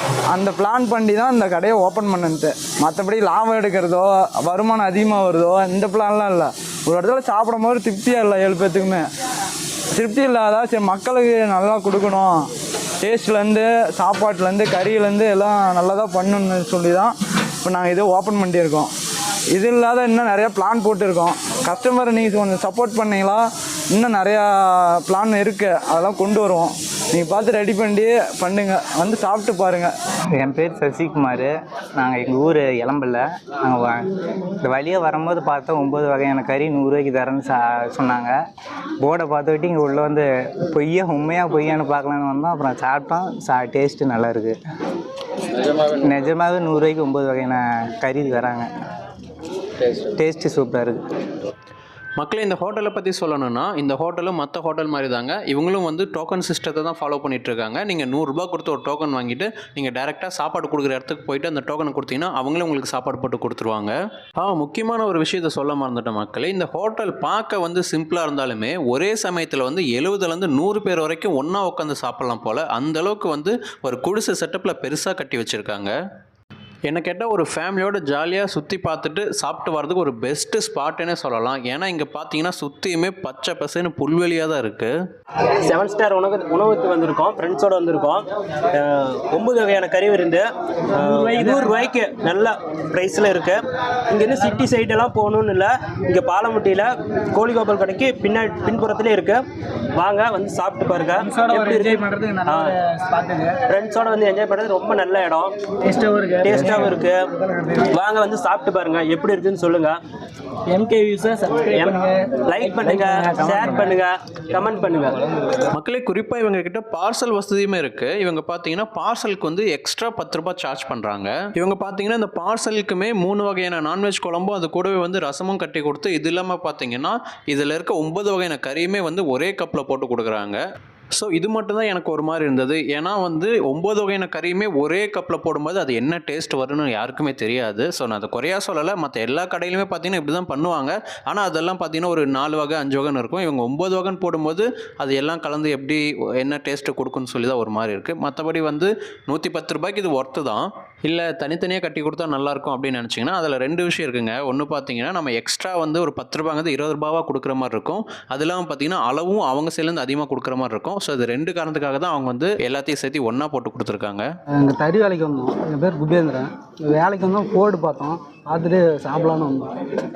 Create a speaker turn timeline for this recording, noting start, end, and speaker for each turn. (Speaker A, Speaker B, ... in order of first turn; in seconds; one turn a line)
Speaker A: 0.3-9.0
Speaker A: 9.9-12.3
Speaker A: 13.0-17.1
Speaker A: 17.6-18.9
Speaker A: 19.6-24.5
Speaker A: 25.0-29.9
Speaker B: 30.3-34.1
Speaker B: 34.6-38.4
Speaker B: 39.0-44.5
Speaker B: 45.6-48.7
Speaker B: 49.8-51.0
Speaker C: 52.2-75.9
Speaker C: 76.9-84.9
Speaker D: 85.7-99.4
Speaker D: 100.0-102.8
Speaker D: 103.5-105.5
Speaker E: 106.0-106.4
Speaker D: 106.4-107.2
Speaker D: 107.7-110.0
Speaker D: 110.7-115.2
Speaker E: 113.3-113.6
Speaker C: 115.6-130.6
Speaker C: 131.1-164.3
Speaker E: 164.6-169.7